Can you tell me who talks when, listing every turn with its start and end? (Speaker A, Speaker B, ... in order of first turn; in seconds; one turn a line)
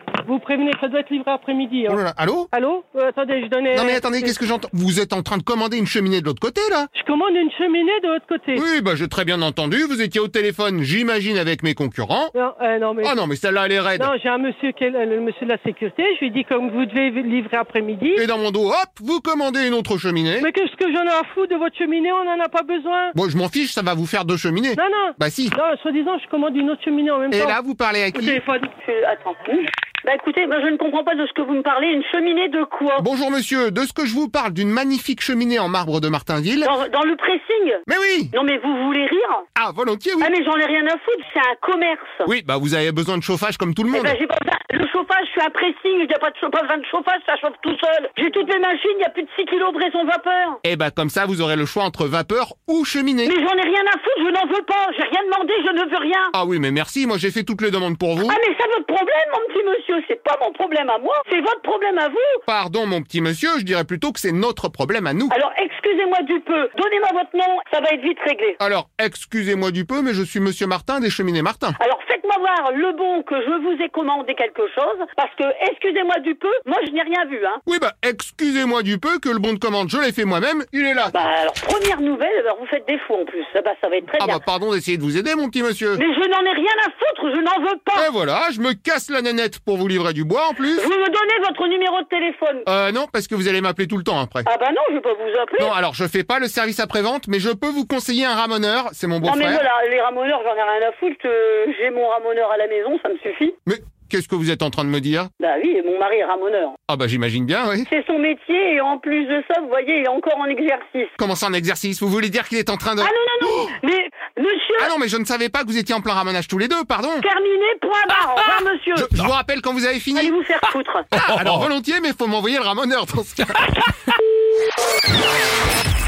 Speaker A: 0.2-2.0
Speaker B: 1.9-2.5
Speaker A: 2.5-4.4
Speaker B: 3.7-6.9
Speaker A: 6.9-8.6
Speaker B: 8.5-12.3
Speaker A: 12.3-13.2
Speaker B: 13.0-14.1
Speaker A: 14.0-18.2
Speaker B: 18.1-20.5
Speaker A: 20.4-23.1
Speaker B: 23.1-25.6
Speaker A: 24.8-27.6
Speaker B: 27.3-28.4
Speaker A: 28.1-28.7
Speaker C: 28.8-33.0
Speaker B: 33.0-36.7
Speaker C: 36.6-37.8
Speaker B: 37.9-38.3
Speaker C: 38.3-39.4
Speaker B: 39.5-40.3
Speaker C: 40.2-42.3
Speaker B: 42.2-44.2
Speaker C: 43.9-50.6
Speaker B: 50.6-53.3
Speaker C: 53.2-56.3
Speaker B: 56.3-58.4
Speaker C: 58.2-62.4
Speaker B: 62.5-65.3
Speaker C: 65.3-68.6
Speaker B: 68.6-71.8
Speaker C: 71.8-77.6
Speaker B: 77.7-81.1
Speaker C: 81.1-84.4
Speaker B: 84.2-86.0
Speaker C: 86.0-88.0
Speaker B: 87.9-90.9
Speaker C: 90.8-92.7
Speaker B: 92.6-94.5
Speaker C: 94.5-95.7
Speaker B: 95.6-99.7
Speaker C: 99.2-103.5
Speaker B: 103.7-105.3
Speaker C: 105.4-106.8
Speaker B: 106.9-107.9
Speaker C: 107.9-111.1
Speaker B: 111.2-113.1
Speaker C: 113.0-114.9
Speaker B: 114.8-117.2
Speaker C: 117.2-119.1
Speaker B: 118.9-120.4
Speaker C: 120.2-121.1
Speaker B: 121.1-123.7